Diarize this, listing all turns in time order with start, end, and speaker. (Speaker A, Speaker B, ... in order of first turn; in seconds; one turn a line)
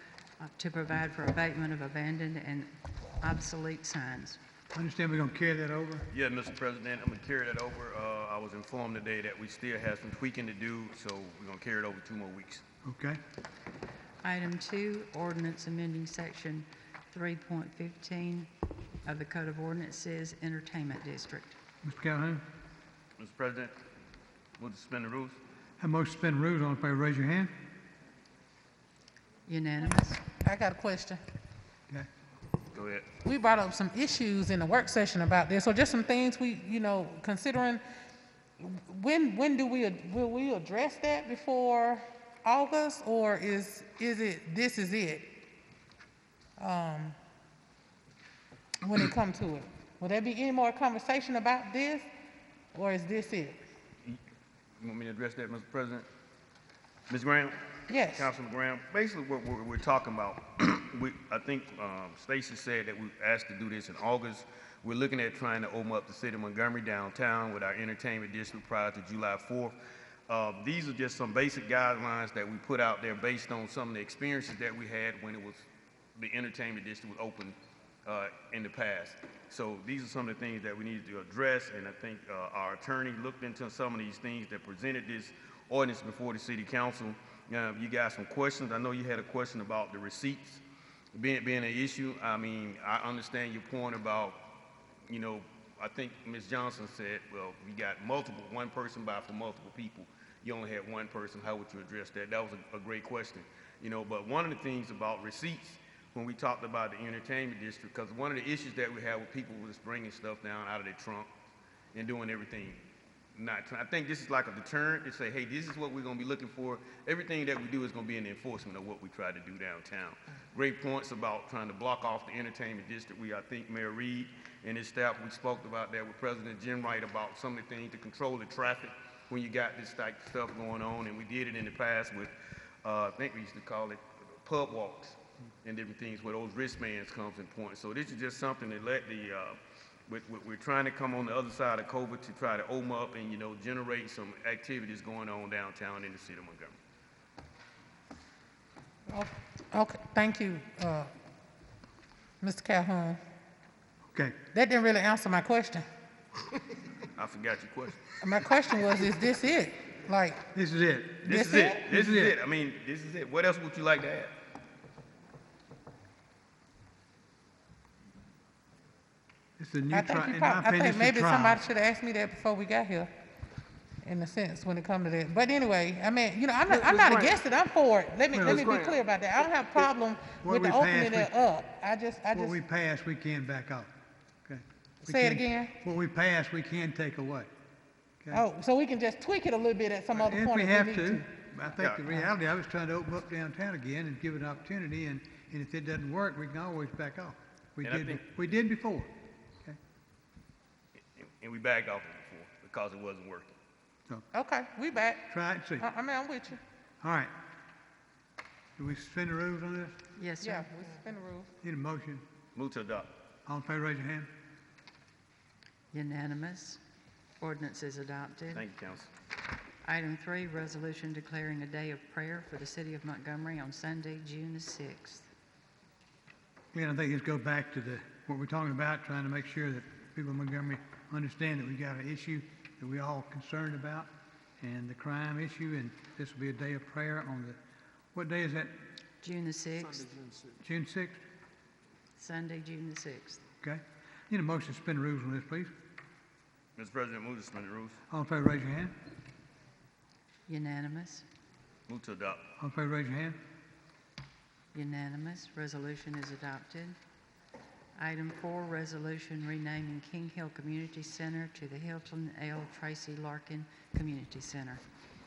Speaker A: 0.4-2.7
Speaker A: 3.2-4.4
Speaker B: 4.7-6.1
Speaker C: 6.1-12.6
Speaker B: 12.8-13.2
Speaker A: 14.2-18.5
Speaker A: 19.1-21.6
Speaker B: 21.8-22.4
Speaker C: 23.2-23.7
Speaker C: 24.6-25.4
Speaker B: 25.8-27.5
Speaker A: 29.5-30.2
Speaker D: 30.4-31.2
Speaker C: 32.7-33.1
Speaker D: 33.2-37.8
Speaker D: 38.6-45.3
Speaker D: 46.6-47.2
Speaker D: 48.8-52.1
Speaker D: 52.7-53.6
Speaker C: 54.8-56.1
Speaker C: 57.1-69.8
Speaker D: 57.9-58.3
Speaker C: 70.3-90.6
Speaker C: 91.2-94.4
Speaker C: 95.1-111.3
Speaker C: 111.9-132.3
Speaker C: 132.8-146.8
Speaker D: 149.1-151.1
Speaker D: 152.4-153.2
Speaker B: 154.1-154.4
Speaker D: 154.5-155.8
Speaker C: 157.2-158.2
Speaker D: 158.2-160.4
Speaker B: 160.5-161.4
Speaker C: 161.2-164.3
Speaker D: 161.3-161.8
Speaker B: 161.9-162.4
Speaker B: 169.6-171.6
Speaker D: 169.9-173.1
Speaker D: 174.0-182.6
Speaker C: 176.7-177.3
Speaker B: 178.3-178.7
Speaker C: 178.4-178.9
Speaker B: 180.4-181.3
Speaker B: 182.3-183.9
Speaker B: 184.5-187.5
Speaker D: 185.1-185.7
Speaker B: 188.2-188.5
Speaker D: 188.3-191.3
Speaker B: 190.1-199.1
Speaker C: 197.8-198.2
Speaker C: 201.0-203.5
Speaker D: 204.3-205.3
Speaker B: 205.3-205.9
Speaker D: 205.8-206.6
Speaker B: 207.0-207.3
Speaker B: 208.8-210.0
Speaker A: 210.2-210.7
Speaker D: 210.4-211.5
Speaker B: 211.6-212.2
Speaker C: 212.6-213.1
Speaker B: 213.5-214.3
Speaker A: 215.9-216.8
Speaker A: 217.4-218.7
Speaker C: 218.5-219.1
Speaker A: 219.8-225.3
Speaker B: 226.7-237.6
Speaker B: 238.1-238.7
Speaker A: 239.2-240.2
Speaker B: 240.6-241.2
Speaker A: 242.2-243.4
Speaker B: 243.6-245.7
Speaker C: 246.8-248.0
Speaker B: 248.1-248.9
Speaker A: 250.5-251.2
Speaker C: 251.9-252.5
Speaker B: 252.6-253.4
Speaker A: 254.7-257.0
Speaker A: 258.0-264.8